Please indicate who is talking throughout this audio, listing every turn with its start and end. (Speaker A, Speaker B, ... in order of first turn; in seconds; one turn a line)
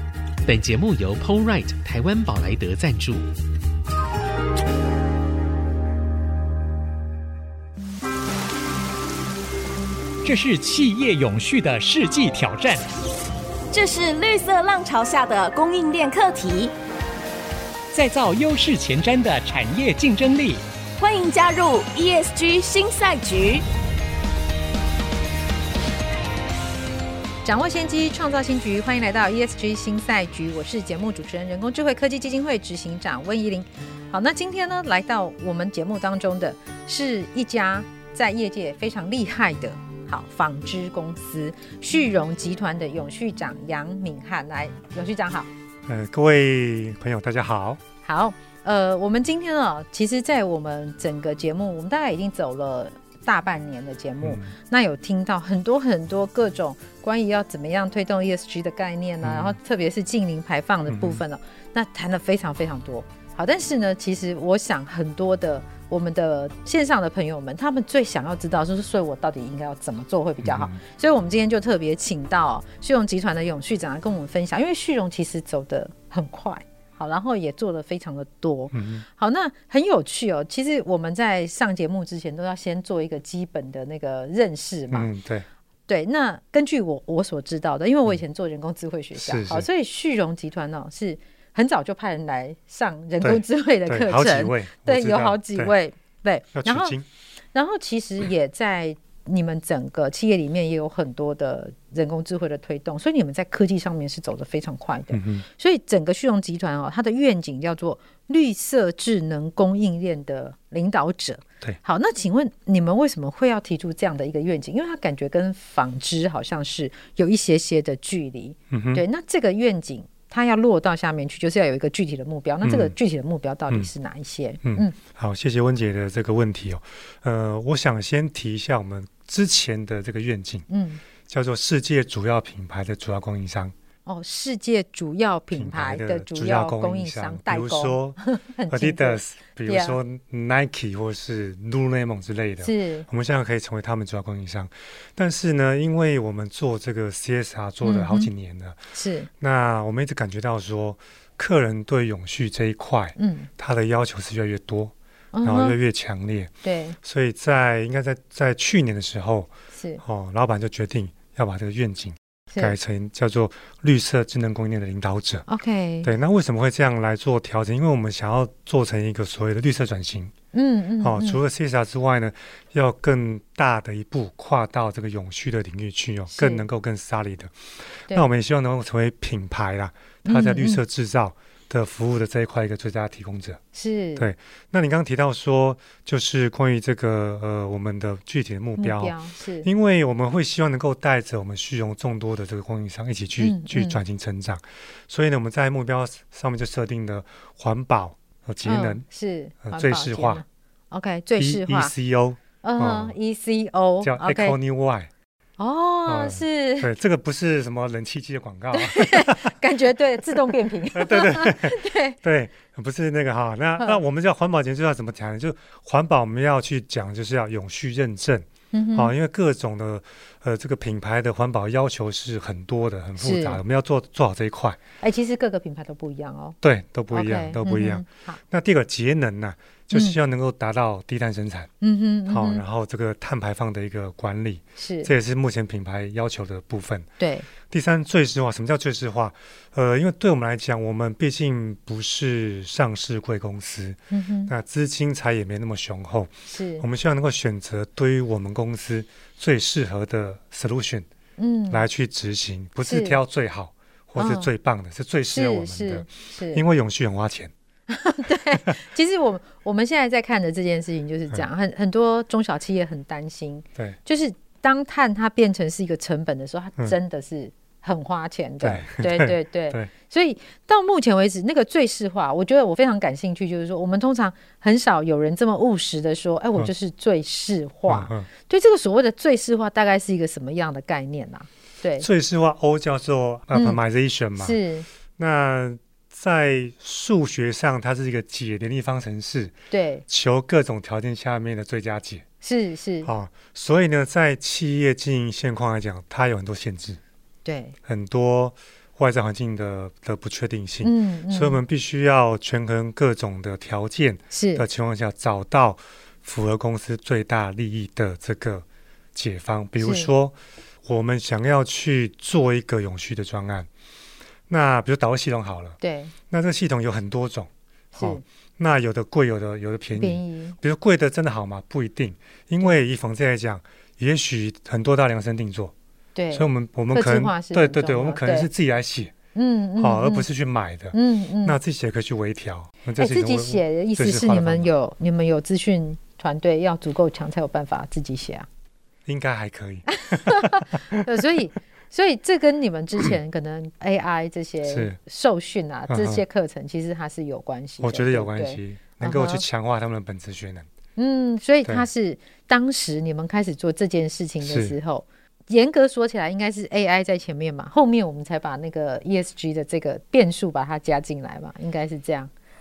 Speaker A: 0.4-3.3
Speaker B: 10.2-12.8
Speaker C: 13.7-16.7
Speaker B: 17.9-20.6
Speaker C: 21.0-23.6
Speaker D: 27.4-45.5
Speaker E: 45.9-47.8
Speaker D: 48.0-85.1
Speaker E: 54.2-54.5
Speaker E: 59.2-59.6
Speaker E: 60.9-61.2
Speaker E: 70.4-70.8
Speaker E: 78.7-79.0
Speaker E: 84.9-85.5
Speaker D: 85.9-97.0
Speaker E: 89.1-89.7
Speaker E: 93.2-95.7
Speaker E: 96.5-97.0
Speaker D: 97.5-124.9
Speaker E: 105.1-105.4
Speaker E: 118.7-119.0
Speaker E: 122.6-122.9
Speaker E: 124.6-130.7
Speaker D: 130.7-131.0
Speaker E: 131.3-133.7
Speaker D: 134.1-140.0
Speaker E: 135.5-138.2
Speaker E: 138.7-148.8
Speaker D: 142.6-143.1
Speaker D: 147.8-148.3
Speaker D: 148.9-149.3
Speaker E: 149.4-165.4
Speaker D: 153.2-153.5
Speaker D: 155.3-155.8
Speaker D: 156.6-157.0
Speaker D: 159.7-160.0
Speaker D: 165.5-166.1
Speaker E: 166.0-170.3
Speaker D: 170.5-171.4
Speaker E: 171.0-177.5
Speaker D: 176.3-176.7
Speaker E: 178.1-183.6
Speaker D: 180.2-180.8
Speaker D: 183.7-184.3
Speaker E: 184.2-199.0
Speaker D: 188.8-189.7
Speaker D: 193.4-194.0
Speaker D: 198.6-201.9
Speaker E: 199.6-200.4
Speaker E: 201.4-203.1
Speaker D: 202.6-204.6
Speaker E: 204.0-205.1
Speaker D: 205.6-206.9
Speaker E: 206.1-209.5
Speaker D: 208.7-212.2
Speaker E: 210.9-224.8
Speaker D: 218.7-219.1
Speaker D: 223.2-223.6
Speaker D: 225.0-226.6
Speaker E: 226.6-231.7
Speaker D: 227.1-228.4
Speaker D: 231.8-232.6
Speaker E: 232.3-237.1
Speaker D: 234.8-235.1
Speaker D: 237.2-237.5
Speaker E: 237.6-251.1
Speaker D: 244.1-244.5
Speaker D: 246.5-246.8
Speaker D: 251.4-251.8
Speaker E: 251.7-257.5
Speaker D: 252.8-253.2
Speaker D: 254.2-254.5
Speaker D: 255.3-256.6
Speaker D: 257.9-282.1
Speaker E: 268.6-269.9
Speaker E: 277.9-278.3
Speaker E: 282.0-284.6
Speaker D: 283.5-283.8
Speaker D: 284.4-284.9
Speaker E: 285.2-289.5
Speaker D: 289.7-290.0
Speaker E: 290.1-292.2
Speaker D: 292.4-293.1
Speaker E: 293.0-297.0
Speaker D: 297.4-297.7
Speaker E: 297.8-313.7
Speaker D: 300.8-301.6
Speaker D: 304.3-304.6
Speaker D: 309.8-310.1
Speaker E: 314.5-315.8
Speaker D: 315.8-316.1
Speaker E: 316.3-325.7
Speaker D: 317.9-318.2
Speaker D: 319.9-320.6
Speaker D: 326.1-328.5
Speaker E: 326.3-329.1
Speaker D: 329.3-330.3
Speaker E: 329.8-334.7
Speaker D: 330.9-331.6
Speaker D: 333.0-338.5
Speaker E: 339.1-341.1
Speaker D: 339.9-349.4
Speaker E: 344.6-345.0
Speaker E: 345.9-346.2
Speaker E: 347.8-350.7
Speaker D: 351.0-362.3
Speaker E: 354.4-354.8